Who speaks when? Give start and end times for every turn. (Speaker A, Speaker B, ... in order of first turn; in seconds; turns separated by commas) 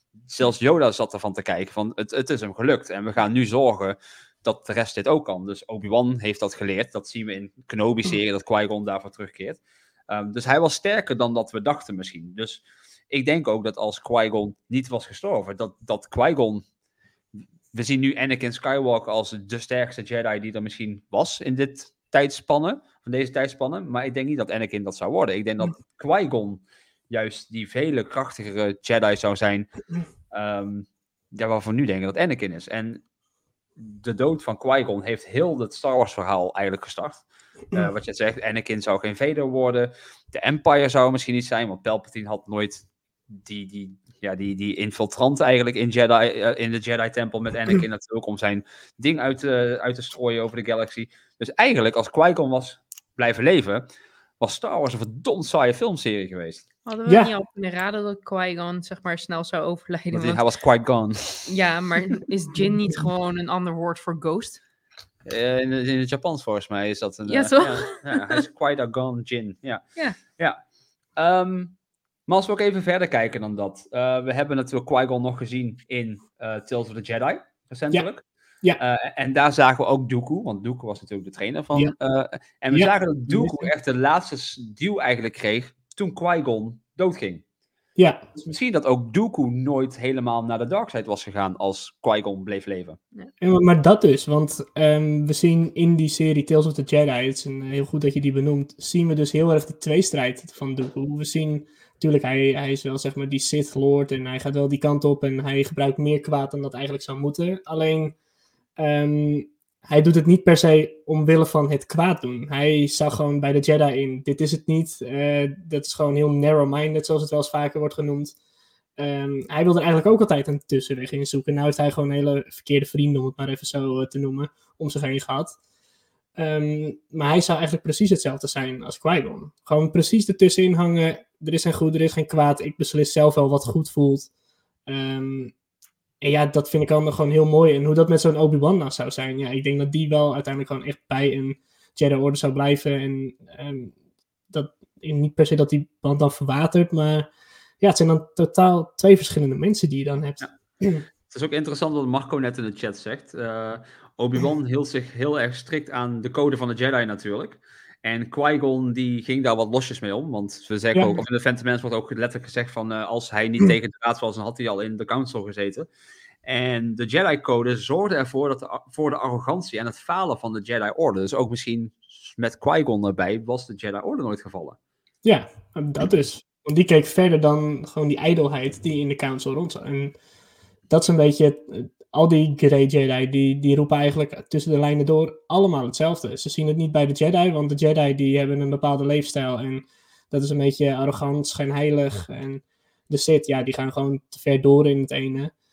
Speaker A: 0.3-16.6, Speaker A: 17.7-29.7, Speaker A: 30.3-33.0, Speaker A: 33.8-53.9, Speaker A: 54.4-56.7, Speaker B: 56.9-60.4, Speaker C: 57.1-57.3, Speaker A: 60.1-61.5, Speaker B: 61.5-64.6, Speaker A: 65.3-70.6, Speaker B: 67.3-68.4, Speaker A: 71.2-71.8, Speaker A: 72.3-78.2, Speaker A: 78.8-87.4, Speaker C: 82.7-83.7, Speaker C: 88.0-88.3, Speaker A: 88.4-93.0, Speaker C: 93.4-108.2, Speaker C: 108.8-118.3, Speaker C: 119.0-125.6, Speaker C: 126.4-134.3, Speaker C: 134.9-135.5, Speaker C: 136.2-143.9, Speaker C: 144.5-147.3, Speaker C: 147.8-151.1, Speaker A: 151.3-165.9, Speaker C: 160.9-161.2, Speaker A: 166.4-174.8, Speaker C: 175.2-180.1, Speaker C: 180.9-195.5